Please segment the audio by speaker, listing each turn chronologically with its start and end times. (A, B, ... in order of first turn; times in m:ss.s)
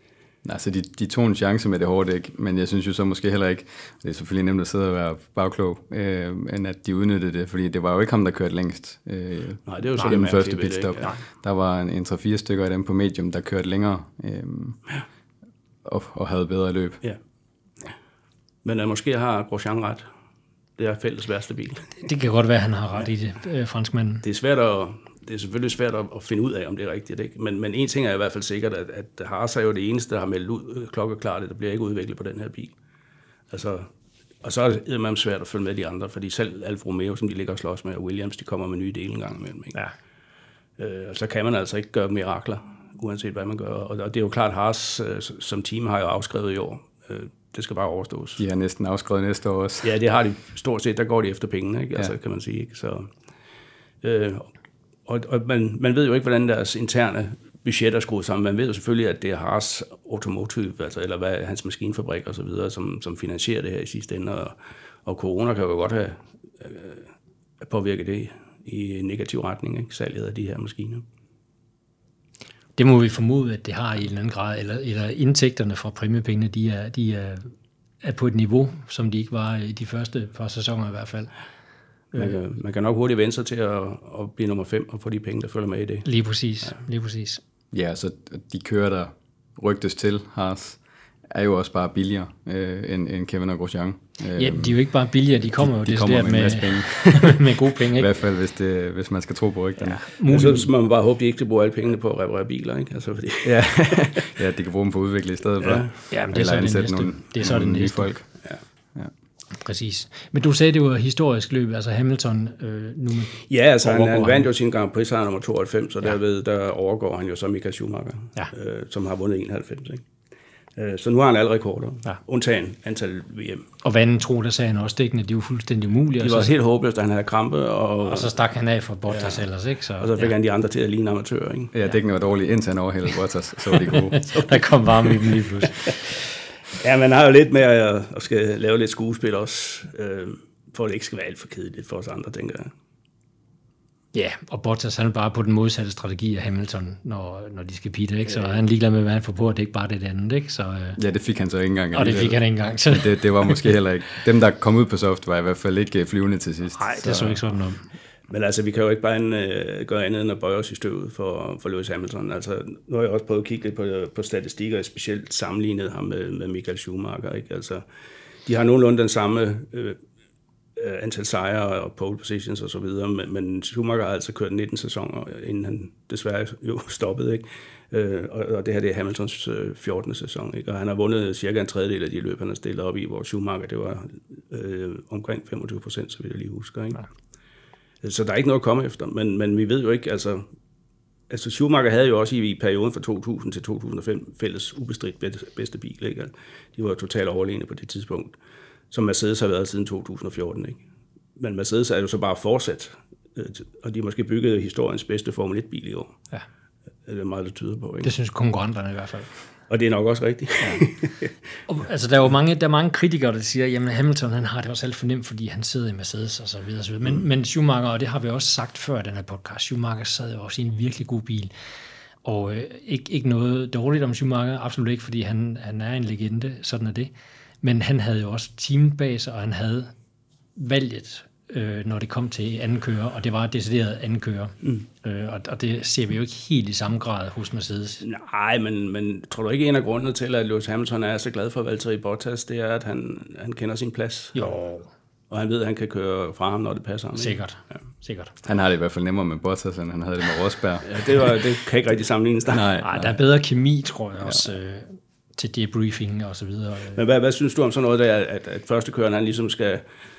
0:00.4-0:14.8 A
0:09.6-0:11.1 B
0:15.8-0:17.0 A
0:18.6-0:20.1 B
0:20.8-0:22.0 B
0:22.0-0:24.2 C
0:24.2-0:32.7 B
0:33.5-0:33.9 B
0:34.4-0:39.8 B
0:40.8-0:48.4 B
0:48.4-0:50.0 A
0:49.8-0:53.1 B
0:54.0-0:54.5 B
0:55.0-1:07.1 B
1:07.6-1:11.0 B
1:12.8-1:21.3 C
1:22.1-1:26.1 B
1:26.0-1:27.4 C
1:27.7-1:34.9 A
1:34.3-1:38.1 C
1:35.5-1:40.0 A
1:39.8-1:40.7 C
1:40.2-1:44.3 B
1:43.4-1:48.4 A
1:45.6-1:45.9 B
1:46.1-1:48.2 C
1:49.6-1:54.5 C
1:53.5-2:00.0 B
2:00.8-2:03.7 B
2:03.8-2:06.5 C
2:06.2-2:08.3 B
2:08.0-2:10.3 C
2:09.1-2:09.5 B
2:10.0-2:11.7 B
2:11.7-2:14.2 A
2:13.9-2:16.2 C
2:16.7-2:22.7 B
2:24.1-2:31.0 C
2:28.3-2:28.6 B
2:31.0-2:37.4 A
2:31.9-2:33.8 C
2:36.7-2:37.8 C
2:38.3-2:47.8 B
2:48.4-2:50.0 B
2:50.8-3:07.0 B
3:08.0-3:10.4 B
3:11.3-3:18.4 B
3:18.9-3:20.8 B
3:21.4-3:26.2 B
3:27.0-3:28.1 B
3:28.0-3:29.3 C
3:29.7-3:31.3 B
3:31.7-3:41.5 C
3:42.2-3:47.1 C
3:47.6-3:49.9 C
3:50.6-3:58.0 C
3:58.0-4:04.6 B
4:04.3-4:04.9 C
4:05.3-4:07.8 B
4:07.2-4:08.3 C
4:08.4-4:11.3 A
4:10.8-4:12.6 B
4:12.5-4:13.2 A
4:12.8-4:17.0 C
4:16.9-4:19.8 B